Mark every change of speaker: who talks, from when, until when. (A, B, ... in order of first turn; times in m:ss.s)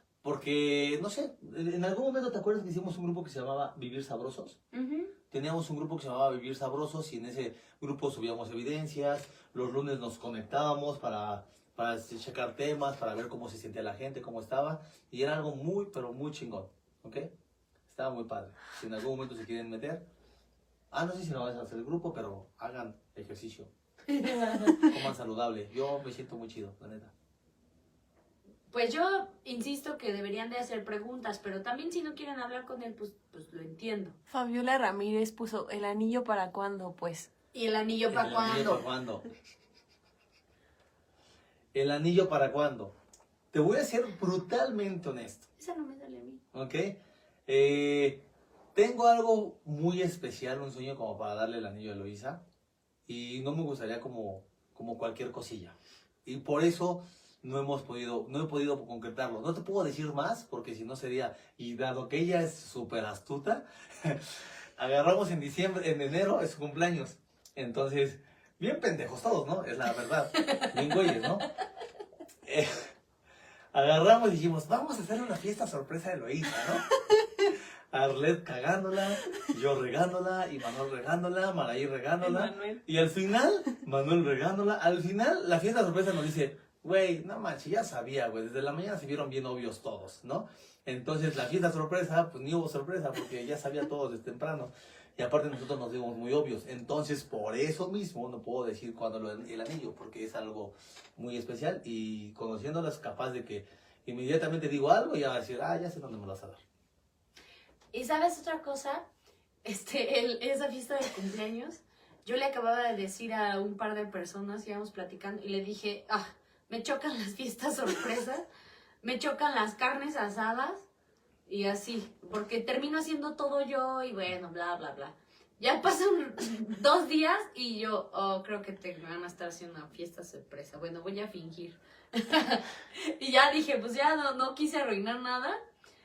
0:00.2-0:04.6 A
0:04.7-0:05.1 B
0:05.3-0:17.3 A
0:17.9-0:20.0 A
0:20.9-0:23.7 A
0:24.2-0:24.8 B
0:24.4-0:24.8 C
0:24.9-0:27.1 A
0:28.7-0:34.2 B
0:34.3-0:37.3 C
0:37.5-0:38.8 B
0:38.1-0:39.3 A
0:41.7-0:43.0 A
0:43.5-0:45.5 A
0:45.6-0:46.4 B
0:46.5-0:52.4 A
0:53.1-1:11.5 A
1:12.4-1:12.9 A
1:13.7-1:16.9 A
1:17.5-1:46.6 A
1:22.2-1:22.8 C
1:47.9-1:49.1 B
1:49.6-1:58.5 B
1:59.0-2:00.9 B
2:01.5-2:15.6 B